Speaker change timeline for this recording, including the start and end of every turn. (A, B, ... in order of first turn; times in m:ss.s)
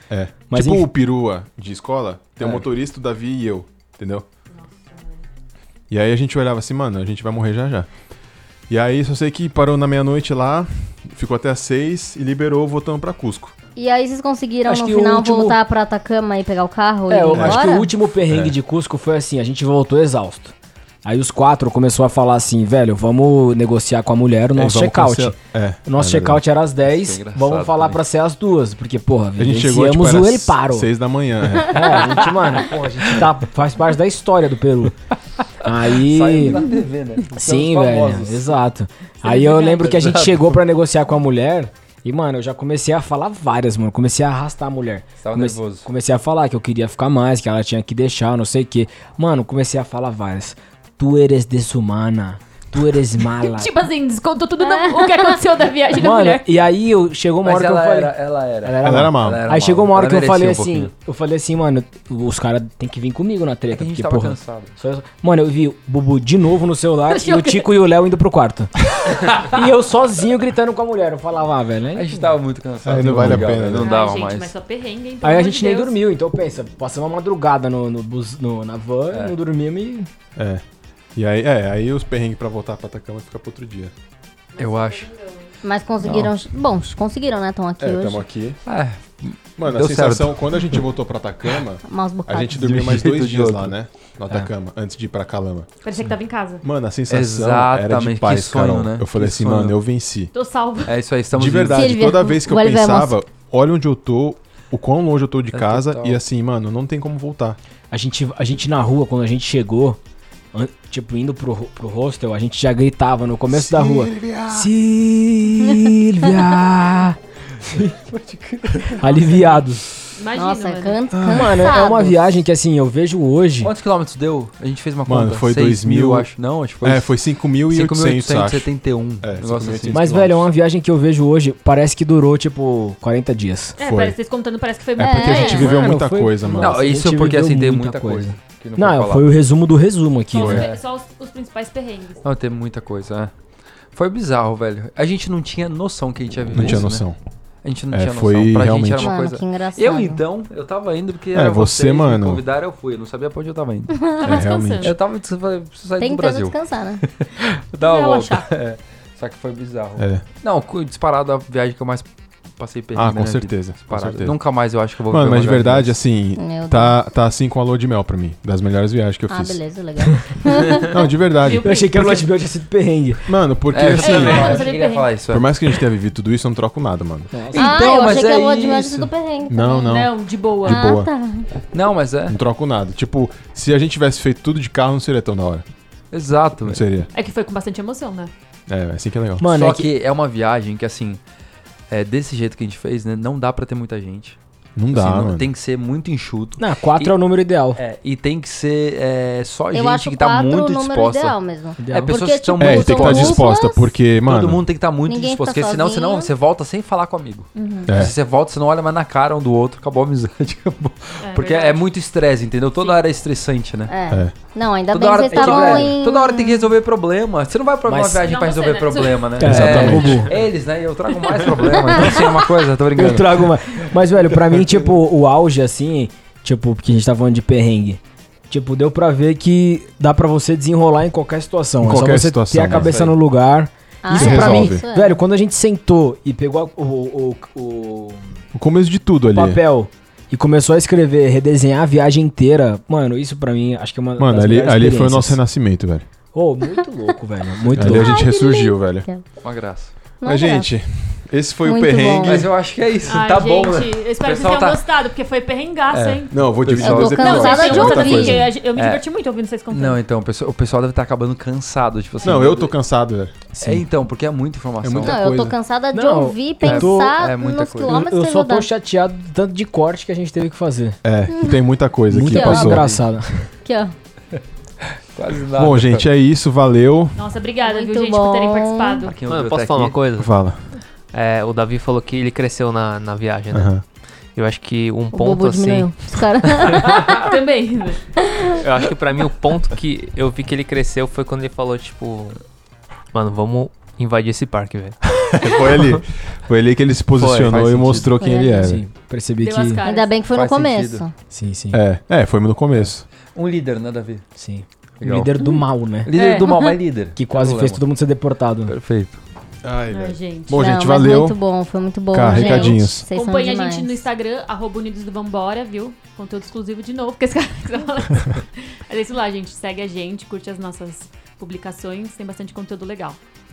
0:00.1-0:04.3 A
0:00.5-0:00.9 B
0:05.9-0:07.9 A
0:08.7-0:13.6 A
0:13.8-0:17.9 C
0:14.7-0:15.6 B
0:17.1-0:30.9 B
0:17.3-0:17.7 A
0:18.3-0:18.5 A
0:24.6-0:26.4 A
0:26.8-0:28.0 D
0:29.4-0:31.9 A
0:31.6-0:35.0 B
0:31.7-0:33.2 D
0:35.6-0:36.6 B
0:35.9-0:38.6 D
0:37.3-0:53.8 B
0:39.2-0:40.6 D
0:45.2-0:45.9 D
0:53.3-0:56.5 E
0:54.6-0:55.3 C
0:55.9-1:12.3 B
0:57.4-1:00.9 D
0:58.8-0:59.4 A
1:03.7-1:04.7 D
1:07.1-1:07.7 E
1:11.9-1:14.5 D
1:12.8-1:13.9 A
1:13.8-1:16.0 E
1:15.2-1:20.1 B
1:19.1-1:19.4 D
1:20.4-1:20.6 A
1:21.2-1:23.9 A
1:24.6-1:25.1 D
1:24.6-1:25.3 E
1:25.6-1:28.2 C
1:26.0-1:26.3 D
1:27.8-1:28.6 A
1:28.7-1:30.7 D
1:29.6-1:35.7 A
1:31.8-1:32.6 C
1:32.5-1:33.7 D
1:35.8-1:36.6 E
1:36.6-1:40.3 A
1:37.1-1:39.8 D
1:40.3-1:40.9 E
1:40.9-1:42.0 D
1:41.3-1:47.6 A
1:41.7-1:43.2 C
1:45.5-1:46.2 D
1:47.9-1:50.0 B
1:50.5-1:57.9 B
1:53.5-1:54.7 A
1:57.8-1:59.2 D
1:59.0-1:59.8 B
1:59.3-1:59.6 E
2:00.2-2:01.0 E
2:00.3-2:02.4 C
2:01.1-2:01.7 A
2:01.2-2:03.7 B
2:03.6-2:07.2 D
2:05.1-2:06.3 A
2:06.8-2:08.7 A
2:07.7-2:10.4 D
2:09.2-2:10.4 A
2:09.9-2:13.8 B
2:13.8-2:15.7 E
2:13.8-2:14.2 A
2:15.0-2:16.8 A
2:15.2-2:15.7 C
2:15.5-2:20.7 B
2:16.6-2:19.3 D
2:20.3-2:22.2 E
2:20.4-2:20.7 D
2:22.2-2:23.3 D
2:23.9-2:27.0 D
2:26.5-2:27.2 A
2:27.6-2:34.2 D
2:27.9-2:29.2 A
2:29.0-2:30.2 C
2:31.3-2:32.4 A
2:34.0-2:34.4 C
2:34.2-2:35.0 E
2:34.2-2:35.0 A
2:34.8-2:42.1 D
2:36.0-2:37.0 C
2:37.8-2:38.5 E
2:40.0-2:40.2 A
2:42.6-2:46.0 D
2:43.0-2:44.4 A
2:45.1-2:49.6 A
2:46.4-2:47.0 C
2:49.3-2:50.9 C
2:50.9-2:51.7 A
2:51.4-2:52.2 E
2:51.6-2:53.3 B
2:53.3-2:54.7 A
2:53.7-2:55.5 D
2:54.0-2:55.2 E
2:55.3-2:57.3 A
2:57.3-2:58.0 B
2:57.5-2:59.1 D
2:57.6-3:00.0 C
2:59.5-3:01.1 A
2:59.8-3:00.9 E
3:00.6-3:01.5 C
3:01.7-3:02.4 D
3:02.3-3:05.7 A
3:06.1-3:06.8 D
3:06.6-3:07.1 A
3:07.1-3:08.3 E
3:08.7-3:09.5 A
3:09.4-3:09.9 B
3:09.4-3:11.2 D
3:11.9-3:14.4 D
3:14.8-3:15.5 A
3:14.9-3:17.2 D
3:16.6-3:17.8 B
3:17.8-3:21.4 D
3:19.7-3:23.9 C
3:21.8-3:22.2 B
3:21.9-3:23.6 D
3:22.6-3:24.6 A
3:24.2-3:33.9 D
3:25.1-3:26.3 C
3:27.6-3:28.0 E
3:27.9-3:28.1 A
3:31.2-3:31.8 E
3:33.9-3:36.6 C
3:34.9-3:43.8 D
3:35.3-3:35.9 B
3:37.9-3:38.3 B
3:38.3-3:39.4 E
3:39.4-3:40.3 B
3:39.4-3:40.3 A
3:43.0-3:58.3 B
3:51.8-3:53.0 A
3:52.7-3:53.2 D
3:54.0-3:55.2 C
3:54.1-3:54.8 A
3:58.5-3:59.6 A
3:59.3-4:05.4 B
4:04.2-4:06.1 A
4:06.3-4:08.2 B
4:07.7-4:09.2 C
4:07.8-4:09.1 A
4:09.4-4:09.9 D
4:10.2-4:10.7 C
4:10.2-4:12.5 A
4:11.6-4:12.5 C
4:12.2-4:14.9 D
4:13.0-4:16.4 E
4:15.9-4:18.1 D
4:16.3-4:18.5 A
4:16.8-4:18.5 C
4:17.1-4:20.0 E
4:18.7-4:19.0 D
4:19.7-4:22.7 D
4:22.2-4:23.4 A
4:23.5-4:23.8 B
4:23.6-4:25.2 D
4:24.8-4:25.6 A
4:25.0-4:28.7 C
4:25.9-4:27.3 B
4:26.6-4:28.0 D
4:27.8-4:31.0 B
4:31.0-4:32.9 A
4:32.1-4:33.5 B
4:32.2-4:32.8 C
4:33.6-4:34.0 C
4:35.1-4:36.1 D
4:35.6-4:37.2 A
4:37.2-4:39.2 E
4:37.6-4:39.1 C
4:39.1-4:40.0 D
4:39.2-4:40.3 F
4:40.2-4:40.6 A
4:41.1-4:43.8 F
4:43.5-4:43.8 A
4:44.4-4:47.2 F
4:45.1-4:46.9 C
4:47.1-4:48.0 E
4:48.6-4:52.4 F
4:53.1-4:55.0 F
4:55.3-4:58.8 A
4:57.2-4:57.5 F
4:57.2-4:58.1 D
4:58.2-4:58.8 C
4:58.6-4:59.8 B
4:59.4-5:00.2 E
4:59.8-5:01.1 C
5:00.3-5:01.0 D
5:01.3-5:01.8 B
5:01.7-5:03.1 A
5:02.7-5:04.2 D
5:04.4-5:06.1 B
5:05.0-5:05.3 D
5:06.1-5:07.8 D
5:06.1-5:06.5 E
5:07.2-5:08.7 B
5:08.7-5:09.2 D
5:09.6-5:11.4 A
5:09.9-5:10.6 E
5:10.5-5:14.0 C
5:12.1-5:13.1 A
5:12.2-5:23.2 E